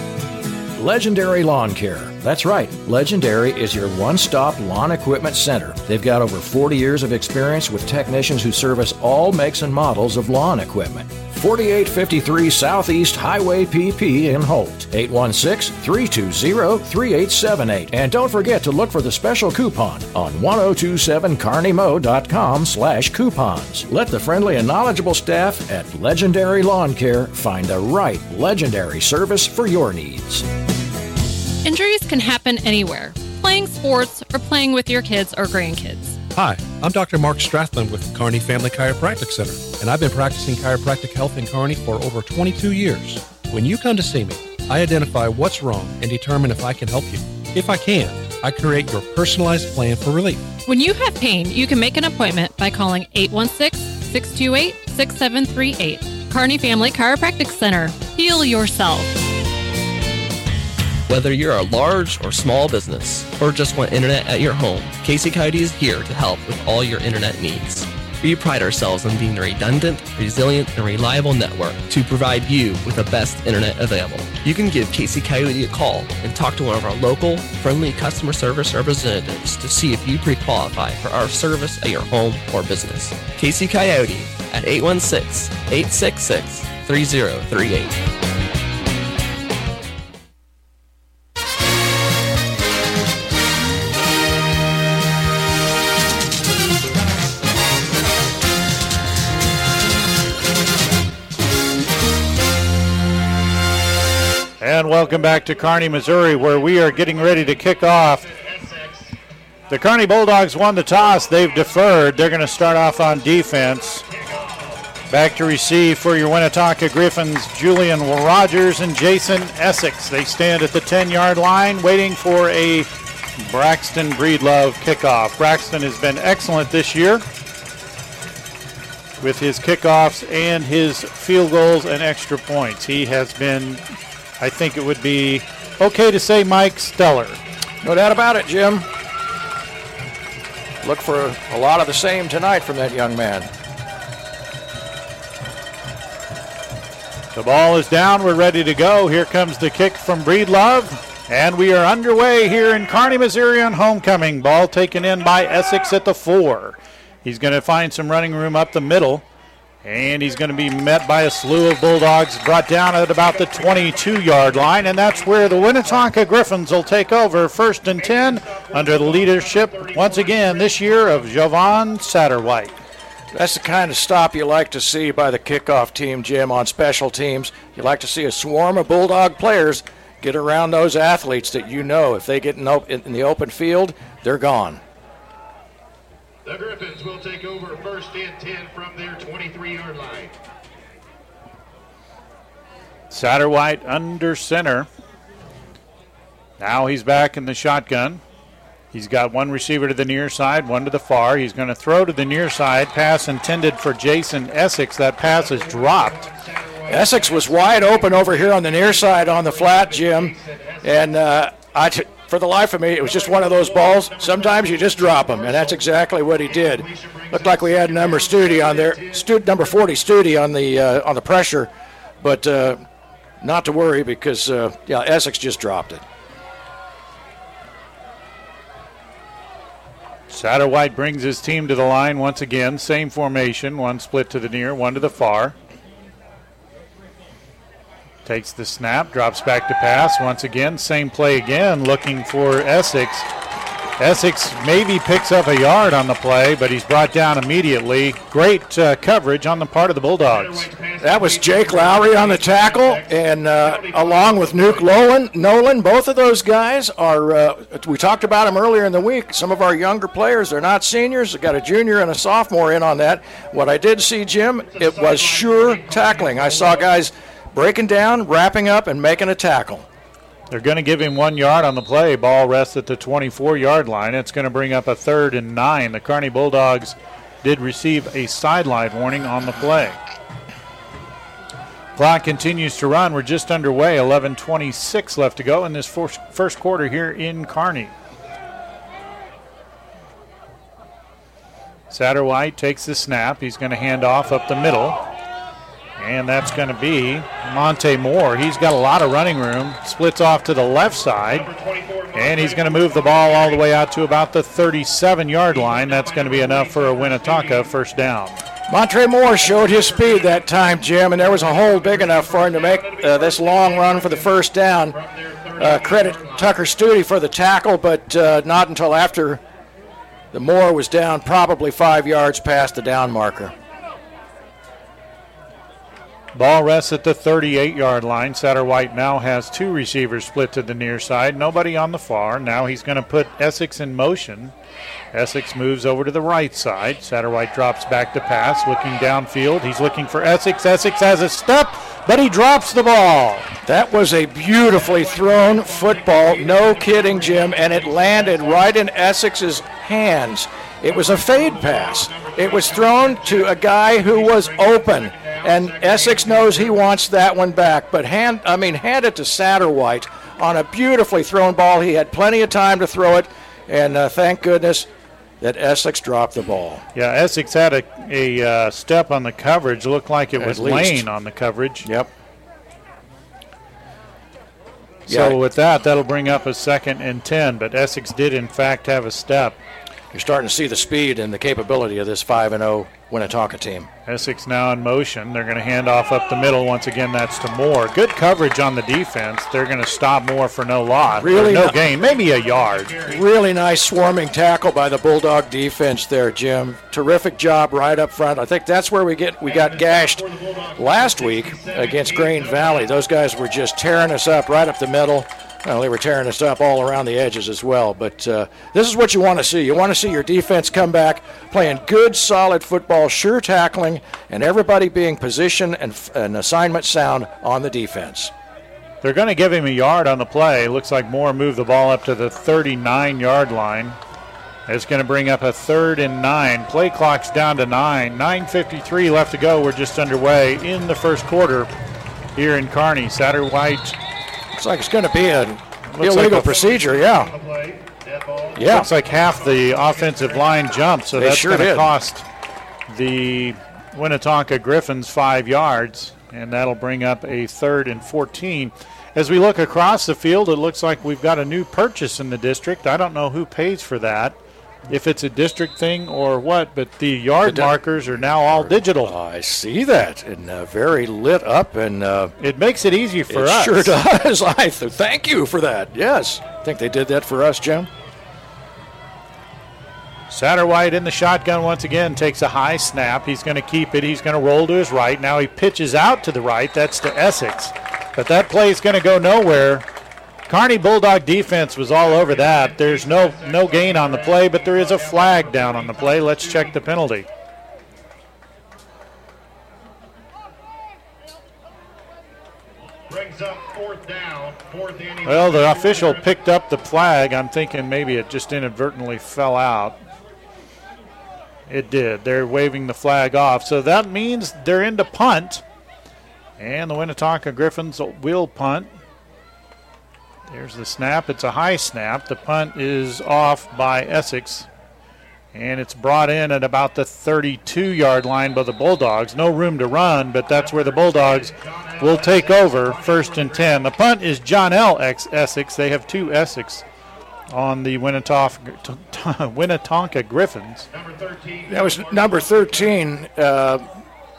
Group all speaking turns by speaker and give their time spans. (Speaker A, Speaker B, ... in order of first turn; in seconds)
Speaker A: 0.8-30.4, 137.8-138.9, 140.8-143.5, 173.3-184.8, 206.9-221.7, 222.2-222.8, 223.4-226.0, 251.0-269.8, 308.7-315.0, 315.6-319.4, 320.3-323.5, 343.6-364.9, 365.4-366.8, 370.4-371.1, 371.8-372.1, 375.1-375.4, 380.1-383.9, 391.2-391.8, 393.1-418.3, 434.5-437.3, 438.6-438.9, 441.1-441.9, 457.4-457.8, 458.4-462.3, 463.3-467.9, 531.7-533.8
Speaker B: 31.6-36.2, 50.6-59.2
Speaker C: 36.3-50.5
Speaker D: 61.1-88.0
Speaker E: 104.6-108.2, 109.7-114.0, 115.1-127.2, 129.2-133.8, 134.4-137.4, 147.3-159.2, 159.8-172.8, 193.1-194.9, 196.6-198.2, 198.9-206.3, 230.3-235.5, 238.2-243.3, 244.0-250.7, 270.5-280.0, 281.9-287.9, 291.9-295.0, 296.0-301.5, 302.1-308.4, 326.3-334.5, 335.1-343.5, 366.9-371.9, 375.1-379.6, 384.1-393.0, 419.0-424.0, 424.7-431.7, 432.4-433.9, 435.9-436.5, 438.6-442.2, 442.9-454.4, 454.9-459.1, 462.4-463.9, 470.3-479.9, 480.5-487.2, 495.2-500.0, 501.7-505.6, 506.6-508.9, 510.5-514.7, 515.5-526.8, 527.5-530.9
Speaker F: 106.1-109.2, 111.0-111.8, 114.0-114.8, 163.1-166.3, 167.9-171.5, 186.4-190.3, 205.2-211.5, 213.0-219.9, 250.2-255.2, 264.6-267.1, 301.2-303.9, 305.4-307.9, 309.4-316.7, 344.5-348.9, 350.9-357.0, 391.7-393.2, 399.4-403.0, 436.6-441.1, 482.0-486.9, 493.1-496.5, 520.5-524.0, 530.9-533.0